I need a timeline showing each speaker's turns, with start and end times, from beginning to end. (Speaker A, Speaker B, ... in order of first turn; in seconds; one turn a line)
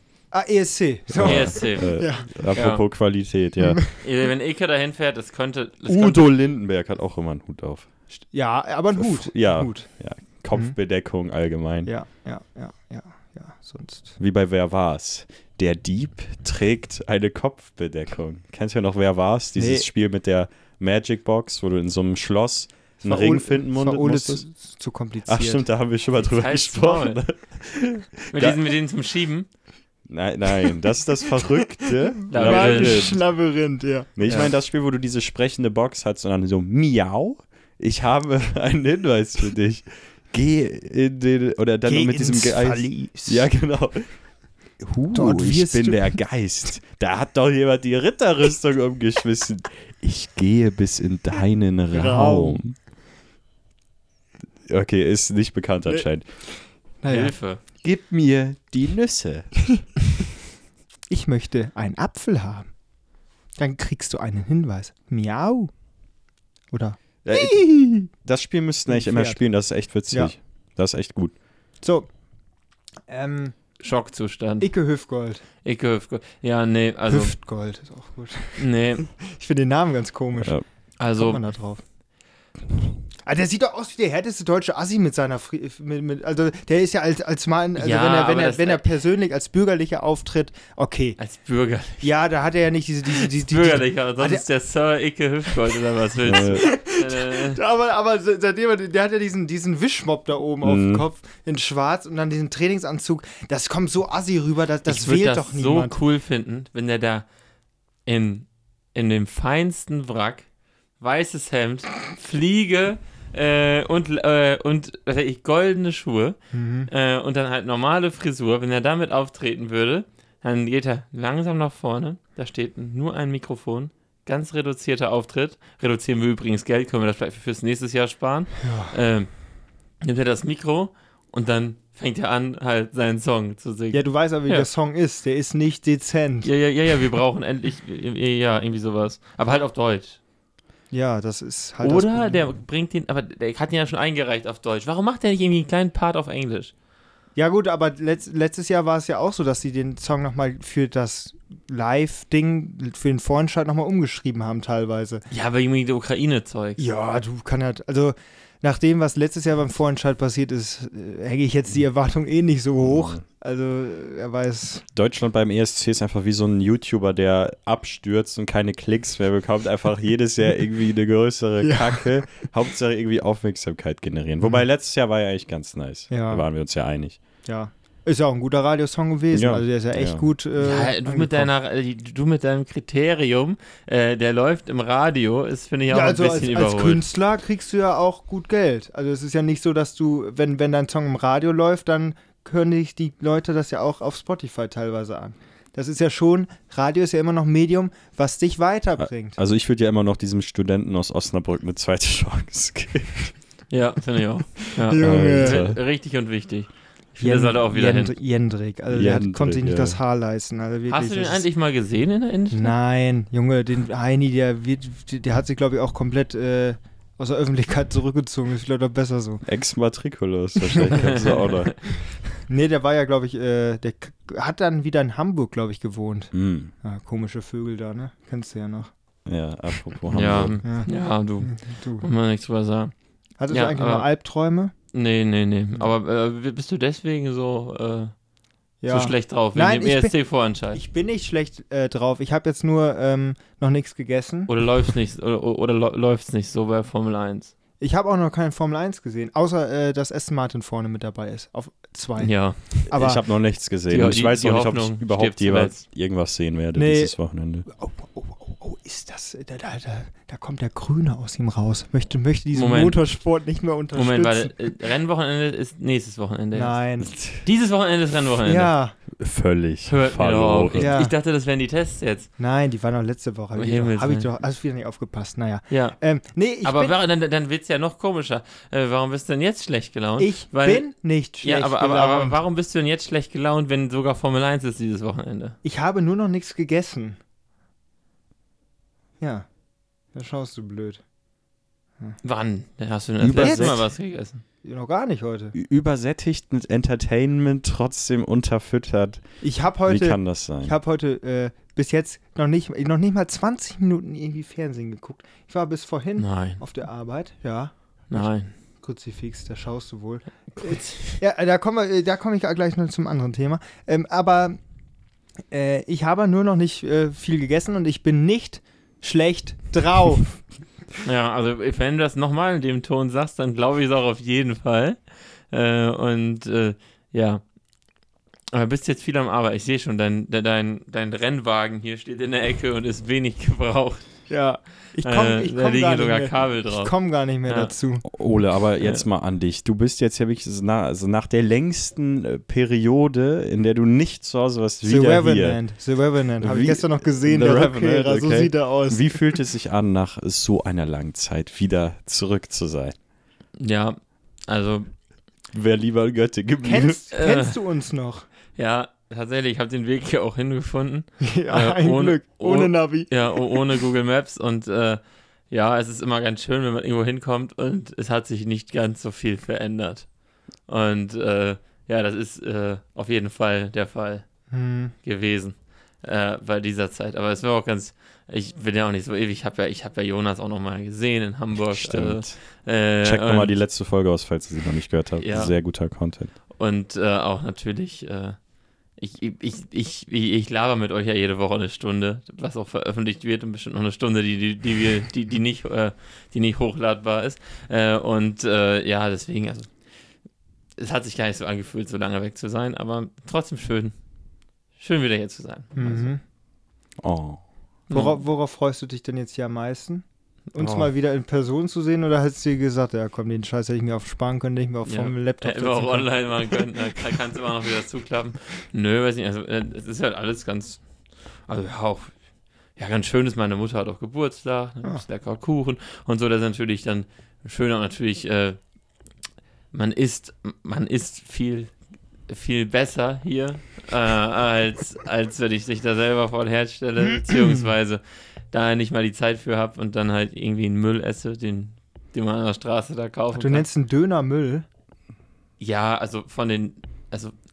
Speaker A: 0.3-2.4
Speaker B: 1.1-4.0
Speaker C: 1.2-2.8
Speaker A: 3.6-3.9
Speaker C: 4.0-6.3
Speaker B: 5.9-8.1
Speaker A: 8.2-10.8
Speaker B: 8.9-11.9
Speaker A: 11.9-14.2
Speaker B: 14.2-24.4
Speaker A: 19.6-19.9
Speaker A: 23.0-25.7
Speaker B: 25.3-28.6
Speaker C: 26.2-27.2
Speaker C: 28.3-29.5
Speaker B: 30.1-33.6
Speaker A: 32.2-34.5
Speaker C: 32.3-33.2
Speaker B: 34.2-52.8
Speaker A: 41.9-43.5
Speaker A: 45.1-46.2
Speaker A: 51.9-52.8
Speaker B: 54.7-56.3
Speaker A: 55.9-57.4
Speaker C: 57.1-57.6
Speaker B: 57.8-59.8
Speaker A: 61.1-62.8
Speaker A: 63.5-65.8
Speaker A: 66.7-68.1
Speaker B: 67.2-71.4
Speaker A: 68.9-70.3
Speaker A: 71.8-72.1
Speaker A: 73.1-73.8
Speaker C: 73.8-74.7
Speaker A: 74.6-75.4
Speaker C: 75.6-77.3
Speaker A: 77.1-81.8
Speaker C: 78.6-79.1
Speaker C: 81.0-81.5
Speaker A: 83.2-91.2
Speaker C: 87.8-88.8
Speaker C: 91.2-92.1
Speaker A: 92.0-94.5
Speaker C: 93.1-97.6
Speaker B: 96.2-96.7
Speaker A: 96.3-106.0
Speaker B: 100.6-101.0
Speaker C: 104.9-107.3
Speaker C: 108.1-110.5
Speaker C: 111.0-129.5
Speaker A: 116.5-116.9
Speaker A: 128.6-128.9
Speaker C: 130.0-134.7
Speaker A: 133.9-136.5
Speaker C: 136.4-140.2
Speaker A: 140.9-142.6
Speaker C: 141.8-146.7
Speaker A: 147.3-155.3
Speaker C: 155.3-156.8
Speaker A: 156.8-164.8
Speaker B: 162.8-163.2
Speaker B: 164.9-177.2
Speaker A: 171.6-172.5
Speaker A: 176.1-176.5
Speaker A: 177.4-181.5
Speaker B: 179.3-180.3
Speaker C: 180.6-187.0
Speaker A: 185.9-199.4
Speaker B: 199.0-203.3
Speaker C: 203.7-208.2
Speaker A: 204.9-205.7
Speaker B: 205.0-205.8
Speaker A: 207.2-211.4
Speaker B: 208.9-210.0
Speaker C: 210.9-212.7
Speaker A: 212.5-219.4
Speaker B: 219.4-222.2
Speaker A: 220.6-221.5
Speaker A: 222.3-228.9
Speaker B: 226.3-226.7
Speaker B: 229.2-230.6
Speaker C: 230.1-232.9
Speaker A: 230.6-232.1
Speaker A: 233.4-234.7
Speaker C: 233.5-234.1
Speaker C: 234.9-238.2
Speaker A: 238.8-244.9
Speaker C: 238.9-240.8
Speaker C: 244.5-247.5
Speaker A: 247.8-253.2
Speaker C: 252.2-252.9
Speaker B: 252.9-257.7
Speaker C: 253.9-255.8
Speaker A: 256.8-264.7
Speaker C: 262.5-263.2
Speaker C: 263.9-268.7
Speaker A: 266.5-267.2
Speaker B: 267.0-267.4
Speaker A: 268.4-269.0
Speaker B: 269.1-270.9
Speaker C: 269.9-272.3
Speaker A: 270.8-271.1
Speaker A: 272.4-276.9
Speaker C: 273.6-274.3
Speaker C: 275.7-276.0
Speaker C: 276.6-280.9
Speaker A: 280.2-282.4
Speaker C: 281.4-285.6
Speaker A: 285.6-287.2
Speaker A: 289.2-289.5
Speaker A: 290.1-291.0
Speaker C: 292.2-294.4
Speaker B: 293.2-293.8
Speaker A: 293.4-294.0
Speaker A: 294.6-295.5
Speaker B: 295.5-300.8
Speaker A: 299.4-314.6
Speaker C: 306.2-306.6
Speaker C: 308.1-308.5
Speaker C: 310.5-311.2
Speaker A: 315.5-320.6
Speaker C: 321.0-327.5
Speaker C: 328.5-334.3
Speaker A: 334.3-338.0
Speaker C: 335.0-337.7
Speaker B: 338.1-345.6
Speaker C: 338.8-339.0
Speaker A: 344.8-349.4
Speaker B: 346.4-352.9
Speaker C: 353.6-354.9
Speaker B: 355.5-357.0
Speaker A: 356.6-358.3
Speaker C: 357.1-357.5
Speaker C: 358.5-383.6
Speaker A: 361.2-363.6
Speaker A: 374.5-374.9
Speaker B: 381.6-386.4
Speaker C: 385.2-399.8
Speaker C: 400.8-404.0
Speaker C: 404.8-406.1
Speaker A: 405.8-406.2
Speaker B: 407.0-407.5
Speaker C: 407.9-408.2
Speaker A: 407.9-416.7
Speaker B: 410.6-410.9
Speaker C: 414.9-428.7
Speaker C: 429.7-443.7
Speaker A: 437.1-437.7
Speaker A: 443.4-444.7
Speaker C: 445.6-447.3